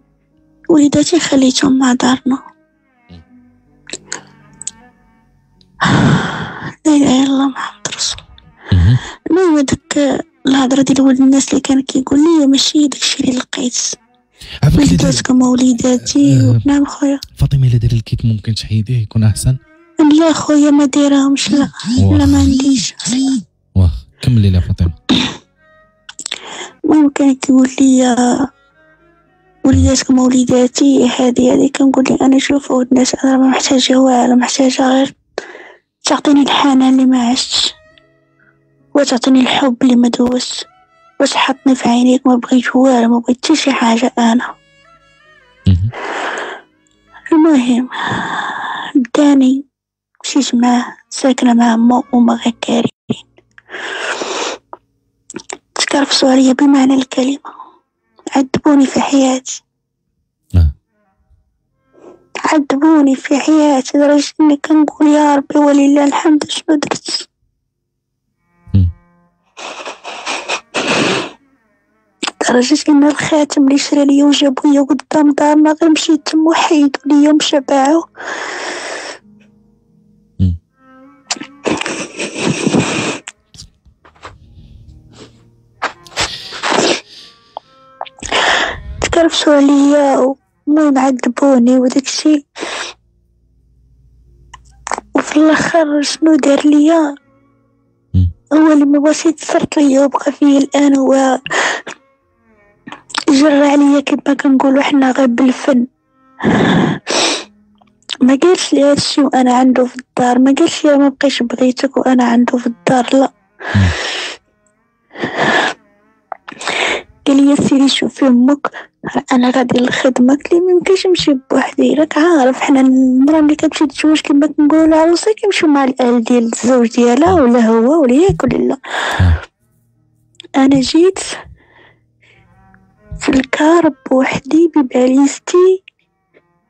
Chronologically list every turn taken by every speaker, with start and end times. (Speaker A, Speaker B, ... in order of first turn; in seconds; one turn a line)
Speaker A: 0.7-2.4
Speaker A: 5.8-8.2
Speaker B: 8.7-9.0
Speaker A: 9.3-14.0
Speaker B: 14.6-15.2
Speaker A: 14.8-17.2
Speaker B: 16.0-16.6
Speaker B: 17.4-19.6
Speaker A: 20.0-23.2
Speaker B: 22.0-22.5
Speaker B: 23.8-25.0
Speaker A: 26.9-28.5
Speaker A: 29.6-35.2
Speaker A: 36.0-37.8
Speaker A: 38.9-40.7
Speaker A: 41.2-44.5
Speaker B: 45.7-45.9
Speaker A: 47.3-49.6
Speaker A: 50.2-53.2
Speaker A: 55.8-57.5
Speaker A: 58.3-59.6
Speaker A: 62.4-67.3
Speaker A: 70.8-71.1
Speaker A: 72.4-78.1
Speaker A: 81.7-83.0
Speaker A: 89.0-92.4
Speaker A: 95.2-97.0
Speaker A: 98.5-101.8
Speaker A: 103.3-105.8
Speaker A: 106.4-107.4
Speaker A: 108.2-113.3
Speaker A: 115.3-115.7
Speaker A: 116.7-128.8
Speaker A: 130.6-131.3
Speaker A: 133.2-135.8